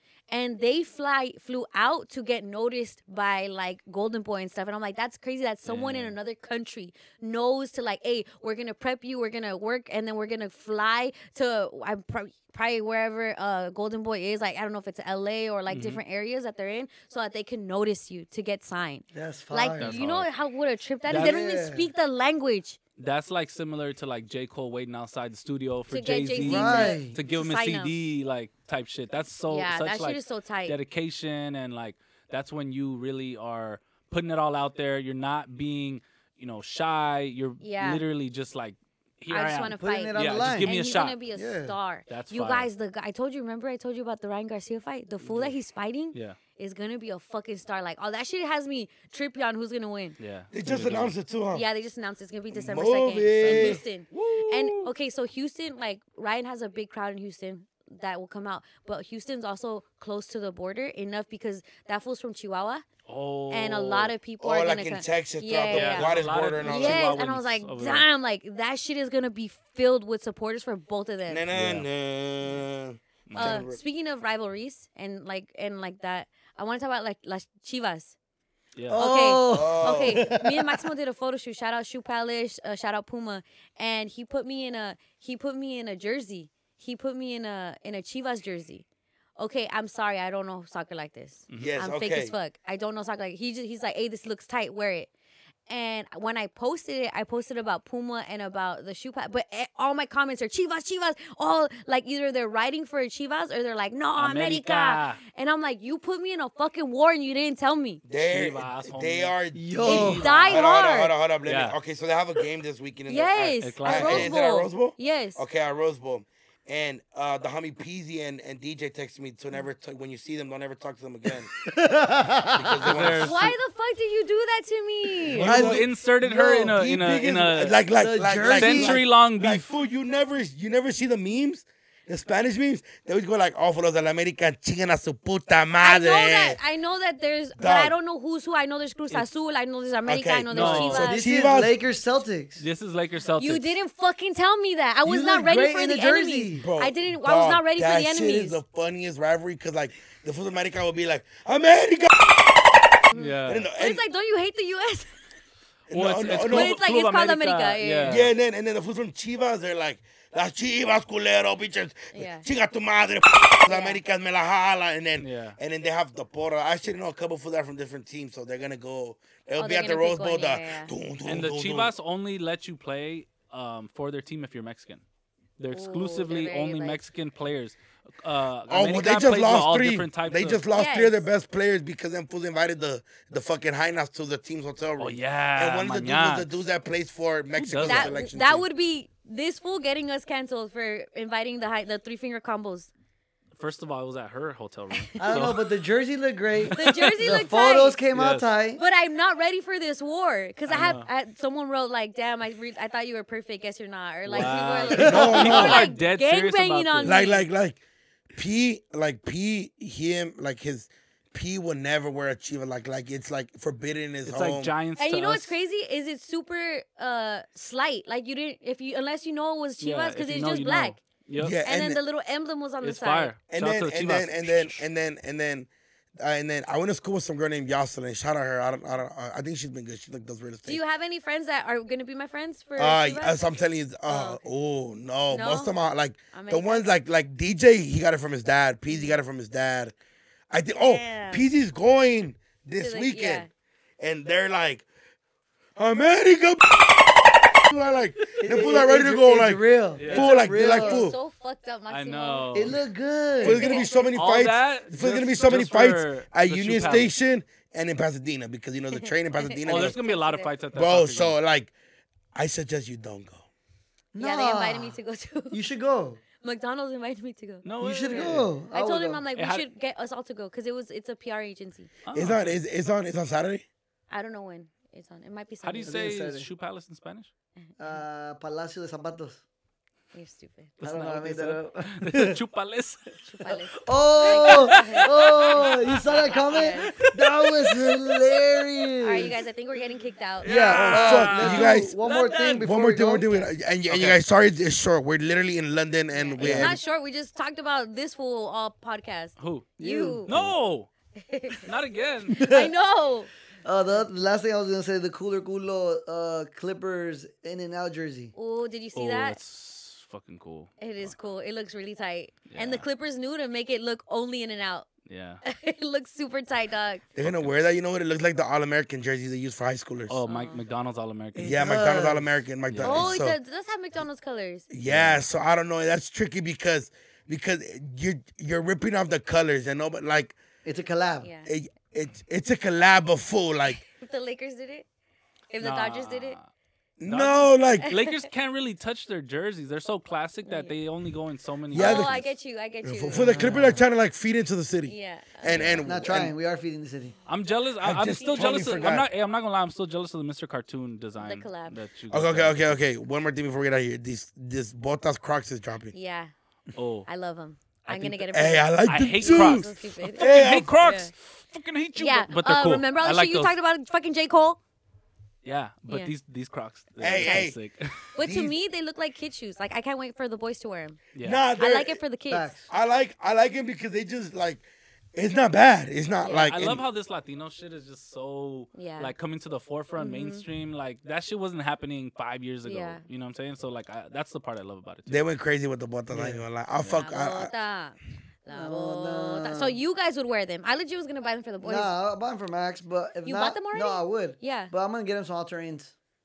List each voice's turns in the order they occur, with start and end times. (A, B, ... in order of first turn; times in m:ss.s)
0:00.3-0:22.8 A
0:05.6-0:06.2 B
0:15.7-0:16.0 B
0:19.1-0:20.0 C
0:19.8-0:20.3 B
0:21.1-0:21.4 B
0:21.1-0:21.9 C
0:23.0-0:41.2 B
0:25.9-0:27.9 A
0:26.4-0:27.2 C
0:29.5-0:30.7 A
0:37.6-0:38.0 A
0:39.3-0:50.2 A
0:39.8-0:40.7 C
0:41.3-0:41.8 C
0:42.1-0:42.7 B
0:45.2-0:45.5 B
0:46.1-0:46.4 B
0:50.2-0:51.2 B
0:50.5-0:51.6 D
0:51.5-1:02.8 A
0:52.5-0:53.8 D
0:53.4-0:54.9 B
1:03.0-1:04.1 B
1:03.5-1:11.4 A
1:04.4-1:07.1 D
1:05.7-1:08.1 B
1:11.3-1:13.8 D
1:11.5-1:11.9 B
1:13.3-1:13.6 B
1:13.3-1:18.1 A
1:18.8-1:19.0 B
1:18.9-1:20.8 C
1:18.9-1:28.8 A
1:19.5-1:20.3 D
1:29.4-1:35.1 A
1:31.5-1:32.3 D
1:35.7-1:48.0 A
1:44.2-1:45.2 B
1:48.1-2:01.5 D
1:48.3-1:50.6 B
1:49.5-1:50.2 C
1:49.8-1:51.2 A
1:51.4-1:51.8 B
1:53.1-1:55.4 A
1:53.3-1:54.3 B
2:01.7-2:03.0 C
2:02.5-2:03.5 D
2:02.8-2:03.5 B
2:03.2-2:05.5 A
2:05.3-2:07.8 B
2:05.4-2:16.6 D
2:05.4-2:05.8 C
2:08.0-2:09.0 C
2:08.4-2:09.7 B
2:15.8-2:21.2 A
2:17.6-2:18.0 D
2:20.0-2:21.7 D
2:20.5-2:21.1 B
2:20.9-2:22.6 C
2:22.6-2:23.7 B
2:23.4-2:28.6 A
2:25.0-2:26.7 C
2:26.6-2:34.0 D
2:33.1-2:35.1 A
2:33.1-2:33.7 B
2:35.9-2:36.8 D
2:35.9-2:38.3 B
2:36.4-2:38.2 A
2:38.0-2:51.9 D
2:42.1-2:42.4 A
2:43.6-2:44.0 A
2:45.2-2:45.6 B
2:49.6-2:50.9 A
2:51.2-2:55.0 B
2:55.6-3:00.6 B
2:55.7-2:57.0 A
2:58.7-3:08.7 D
3:00.7-3:01.2 A
3:05.0-3:06.6 B
3:07.6-3:08.2 B
3:07.8-3:12.9 A
3:13.6-3:15.8 B
3:15.2-3:18.8 C
3:16.5-3:17.2 B
3:16.7-3:18.0 A
3:18.1-3:18.5 B
3:18.8-3:27.4 A
3:20.7-3:21.1 B
3:24.3-3:27.2 B
3:24.4-3:25.8 C
3:25.0-3:25.8 D
3:27.0-3:27.8 D
3:28.4-3:34.7 D
3:34.2-3:35.6 B
3:35.0-3:41.0 A
3:39.8-3:41.6 B
3:41.4-3:42.0 D
3:41.6-3:43.3 A
3:42.8-3:44.8 B
3:43.5-3:45.7 D
3:46.2-3:50.8 D
3:50.6-3:53.4 A
3:52.8-3:59.9 D
3:54.0-3:54.5 A
3:55.3-3:55.7 A
3:56.3-3:56.9 A
3:58.9-3:59.2 A
4:00.5-4:03.4 D
4:00.7-4:01.5 A
4:02.8-4:03.5 A
4:04.0-4:04.8 D
4:05.8-4:11.2 D
4:08.4-4:11.1 C
4:09.9-4:10.4 B
4:10.3-4:12.7 A
4:11.9-4:12.8 B
4:12.5-4:13.6 C
4:13.4-4:20.0 D
4:13.4-4:14.0 A
4:13.8-4:17.1 B
4:18.9-4:20.5 A
4:19.6-4:21.4 B
4:20.7-4:21.7 D
4:22.3-4:23.4 D
4:24.1-4:25.0 C
4:24.2-4:25.6 A
4:25.5-4:26.2 C
4:26.4-4:31.9 A
4:27.6-4:28.5 B
4:27.8-4:29.2 C
4:29.4-4:29.6 B
4:32.0-4:32.6 B
4:32.1-4:33.6 D
4:34.1-4:36.0 A
4:35.6-4:37.3 B
4:35.9-4:36.5 C
4:37.8-4:39.4 C
4:40.1-4:40.7 A
4:40.8-4:43.5 B
4:40.8-4:42.4 C
4:43.2-4:46.9 A
4:43.4-4:49.4 C
4:44.2-4:48.1 B
4:49.0-4:50.9 A
4:50.4-4:52.6 B
4:50.4-4:53.4 C
4:50.7-4:52.0 D
4:52.5-4:56.8 D
4:53.9-4:54.2 B
4:56.1-5:00.3 A
4:56.4-4:56.8 B
4:59.4-4:59.7 B
4:59.8-5:00.5 C
5:00.3-5:00.9 B
5:01.2-5:01.7 A
5:01.6-5:02.4 B
5:02.3-5:02.7 C
5:02.4-5:03.3 A
5:03.6-5:08.3 C
5:08.3-5:09.4 A
5:08.9-5:11.1 B
5:10.8-5:14.9 A
5:12.5-5:12.8 B
5:15.0-5:15.4 B
5:15.4-5:17.0 A
5:17.2-5:20.2 D
5:17.2-5:17.6 B
5:20.1-5:21.6 B
5:20.2-5:20.6 A
5:21.4-5:22.4 C
5:21.4-5:23.4 D
5:22.7-5:23.1 B
5:22.8-5:24.7 A
5:24.7-5:30.4 D
5:24.8-5:25.2 B
5:30.6-5:31.3 C
5:31.2-5:31.5 A
5:31.4-5:33.8 D
5:33.8-5:34.8 A
5:35.5-5:36.4 A
5:35.6-5:36.5 B
5:37.0-5:37.9 D
5:37.0-5:42.2 B
5:37.8-5:38.2 A
5:40.4-5:40.7 A
5:41.7-5:42.2 D
5:41.7-5:43.4 A
5:42.8-5:46.3 D
5:43.1-5:43.8 C
5:44.8-5:45.7 A
5:45.5-5:45.9 B
5:45.8-5:47.2 C
5:47.3-5:52.8 B
5:47.8-5:49.1 D
5:48.1-5:48.9 A
5:51.2-5:51.8 A
5:52.1-5:55.9 D
5:55.9-5:56.3 A
5:56.8-5:57.1 B
5:57.1-6:01.1 A
5:57.9-5:58.2 B
5:58.3-6:00.7 D
5:58.8-6:03.5 B
6:02.0-6:04.6 A
6:05.4-6:08.1 B
6:05.9-6:06.1 A
6:07.0-6:07.6 D
6:07.1-6:07.5 A
6:08.2-6:11.0 A
6:08.2-6:08.5 D
6:11.1-6:11.4 B
6:11.2-6:12.0 D
6:11.6-6:12.5 A
6:12.3-6:12.7 C
6:12.7-6:14.6 D
6:15.1-6:16.8 D
6:16.2-6:16.5 A
6:16.2-6:25.2 B
6:18.7-6:19.1 A
6:20.0-6:20.4 A
6:22.6-6:23.0 A
6:25.1-6:27.5 D
6:26.1-6:26.4 C
6:27.0-6:31.9 A
6:28.5-6:29.8 C
6:31.6-6:35.9 C
6:33.2-6:34.7 A